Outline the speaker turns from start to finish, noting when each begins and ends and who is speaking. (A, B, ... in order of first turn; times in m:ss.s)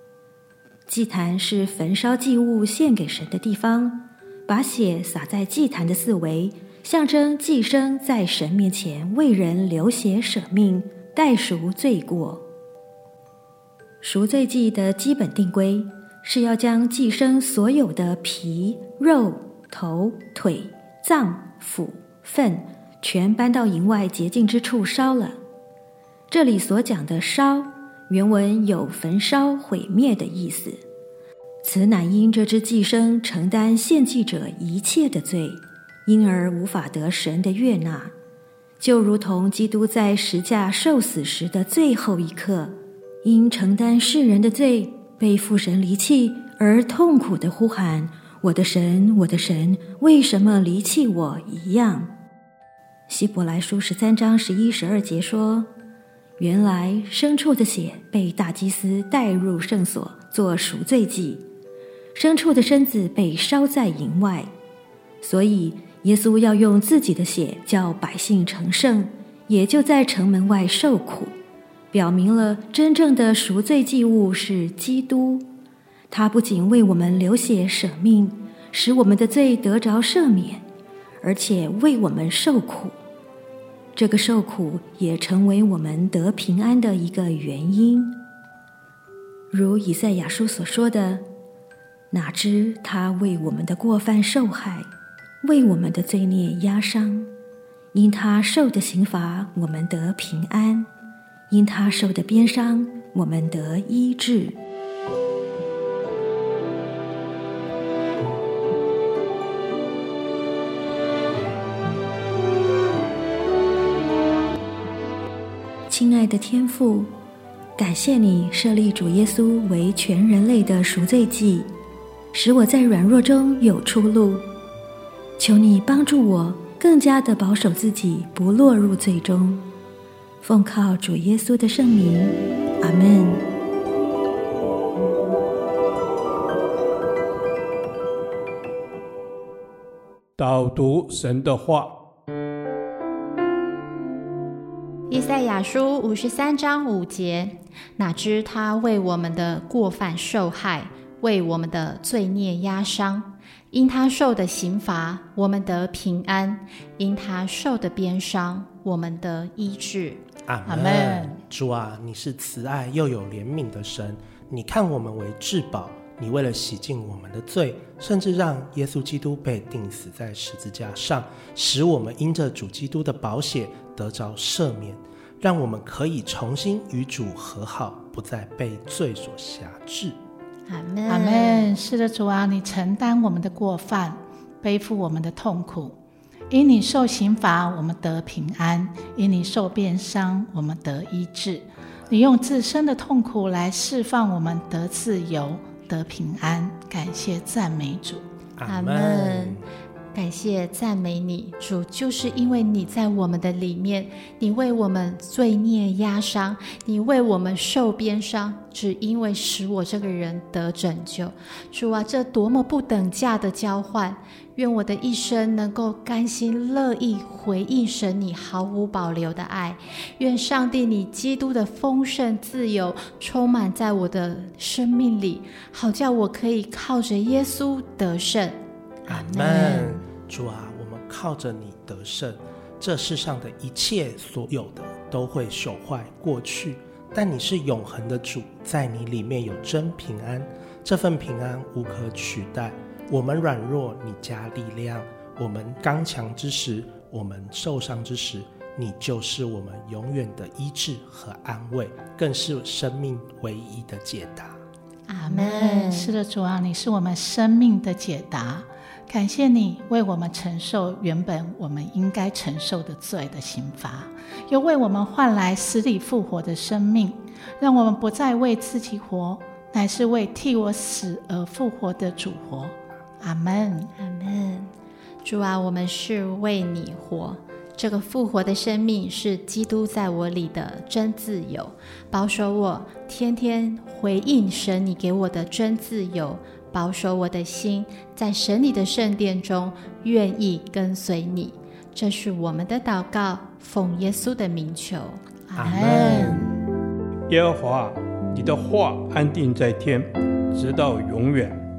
0:00.9-0:12.4 A
0:14.0-0:25.4 A
0:26.3-0:30.8 A
0:31.6-0:38.1 A
0:38.8-0:52.1 A
0:53.1-0:55.7 A
0:56.4-1:01.4 A
1:02.1-1:04.5 A
1:05.2-1:11.4 A
1:11.9-1:15.5 A
1:16.1-1:20.6 A
1:21.2-1:23.0 A
1:23.9-1:28.2 A
1:29.5-1:31.2 A
1:32.1-1:34.9 A
1:35.4-1:37.3 A
1:37.9-1:40.9 A
1:41.5-1:44.6 A
1:55.9-1:57.1 A
1:57.8-2:01.7 A
2:02.3-2:04.5 A
2:05.4-2:09.7 A
2:10.4-2:13.4 A
2:20.4-2:21.9 B
2:25.1-2:40.2 C
2:40.5-3:00.2 D
2:40.6-2:41.4 E
3:00.7-3:01.7 C
3:01.1-3:06.0 E
3:06.5-3:18.2 E
3:18.6-3:19.6 D
3:18.6-3:19.6 C
3:20.1-3:50.0 C
3:49.1-4:14.6 D
4:15.1-4:16.1 C
4:15.2-4:33.9 E
4:34.0-4:34.7 C
4:35.2-4:55.2 C
4:55.5-4:56.3 E
4:55.6-4:56.4 D
4:57.3-5:01.6 B